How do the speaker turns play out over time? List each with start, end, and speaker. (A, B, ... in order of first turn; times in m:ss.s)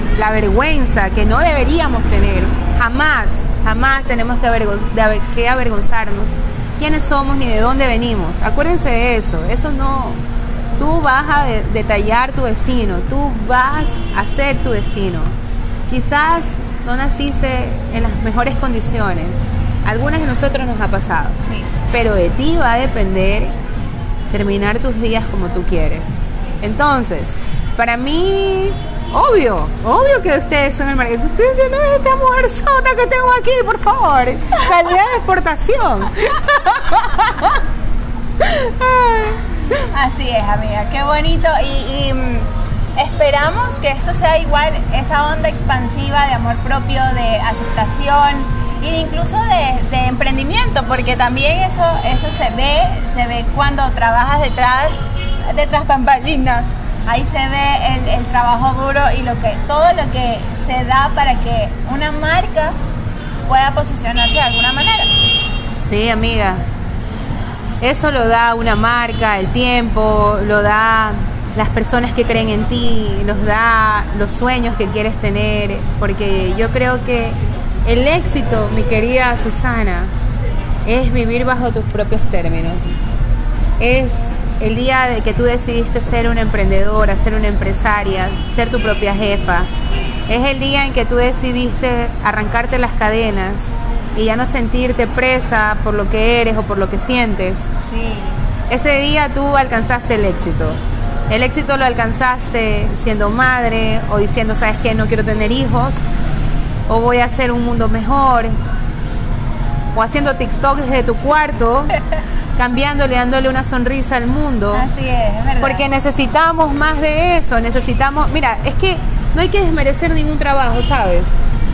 0:00.1-0:10.2 A
0:10.8-0:15.3 A
0:15.9-0:23.5 A
0:21.4-0:21.7 B
0:24.3-0:37.6 A
0:38.4-0:39.6 A
0:39.9-1:02.8 B
1:03.5-1:05.2 B
1:05.8-1:06.6 A
1:07.8-1:20.1 A
1:20.8-1:22.9 A
1:23.8-1:29.7 A
1:30.3-1:37.7 A
1:37.7-1:38.4 B
1:38.7-1:46.1 A
1:46.9-1:48.5 A
1:49.9-1:52.0 A
1:52.6-1:54.9 A
1:54.7-1:55.8 B
1:55.6-2:01.3 A